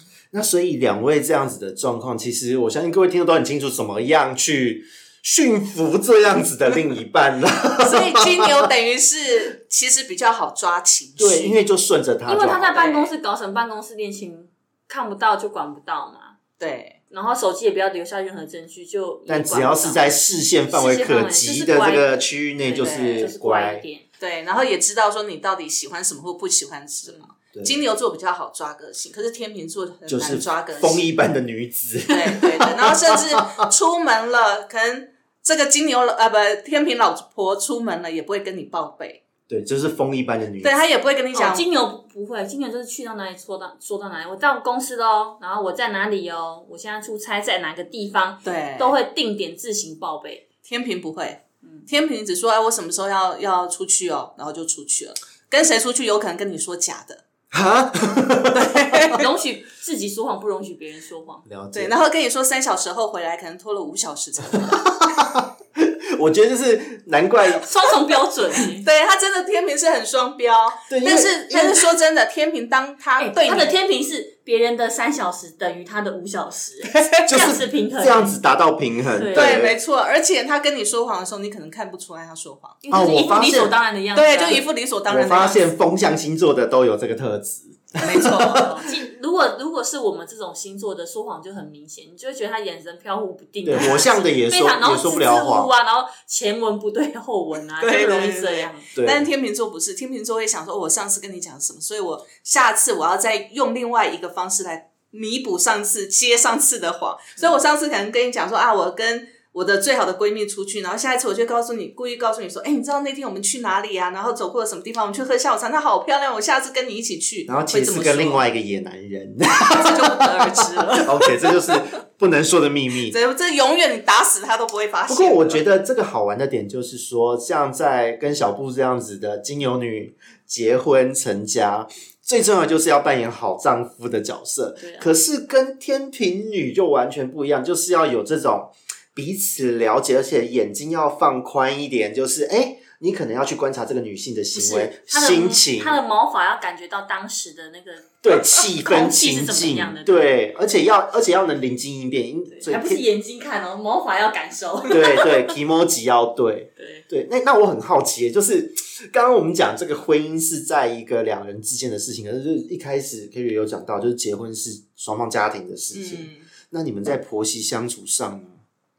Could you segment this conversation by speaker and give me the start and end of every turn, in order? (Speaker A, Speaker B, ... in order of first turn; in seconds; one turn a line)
Speaker A: 0.3-8.6
Speaker B: 7.8-11.6
Speaker A: 11.2-12.8
Speaker C: 12.2-16.4
Speaker B: 12.7-13.1
Speaker B: 16.6-17.0
Speaker C: 17.1-20.1
Speaker A: 19.3-23.8
Speaker C: 20.7-24.1
Speaker B: 22.7-23.3
Speaker B: 24.2-31.1
Speaker A: 30.1-33.4
Speaker B: 32.1-39.2
Speaker A: 39.5-40.7
Speaker B: 40.6-41.6
Speaker C: 41.3-50.4
Speaker B: 48.4-48.9
Speaker B: 50.6-57.2
Speaker A: 57.5-59.1
Speaker B: 58.5-59.2
Speaker C: 59.1-61.5
Speaker A: 61.5-61.9
Speaker B: 61.7-64.8
Speaker A: 64.6-67.6
Speaker C: 67.6-68.8
Speaker B: 68.7-73.7
Speaker A: 70.9-71.9
Speaker C: 73.2-78.4
Speaker A: 77.2-79.8
Speaker C: 79.1-79.6
Speaker B: 79.3-82.8
Speaker C: 82.8-84.6
Speaker A: 82.9-83.8
Speaker B: 84.1-85.7
Speaker A: 85.1-88.8
Speaker B: 88.0-88.7
Speaker C: 88.2-98.9
Speaker A: 93.6-95.7
Speaker B: 93.8-94.1
Speaker B: 97.8-118.4
Speaker A: 98.9-99.3
Speaker A: 117.5-123.2
Speaker B: 119.6-121.8
Speaker B: 123.1-125.6
Speaker A: 125.1-146.0
Speaker C: 134.8-135.1
Speaker C: 144.5-150.3
Speaker A: 148.2-153.0
Speaker C: 152.5-155.5
Speaker A: 154.9-168.6
Speaker C: 156.8-157.0
Speaker B: 165.9-166.5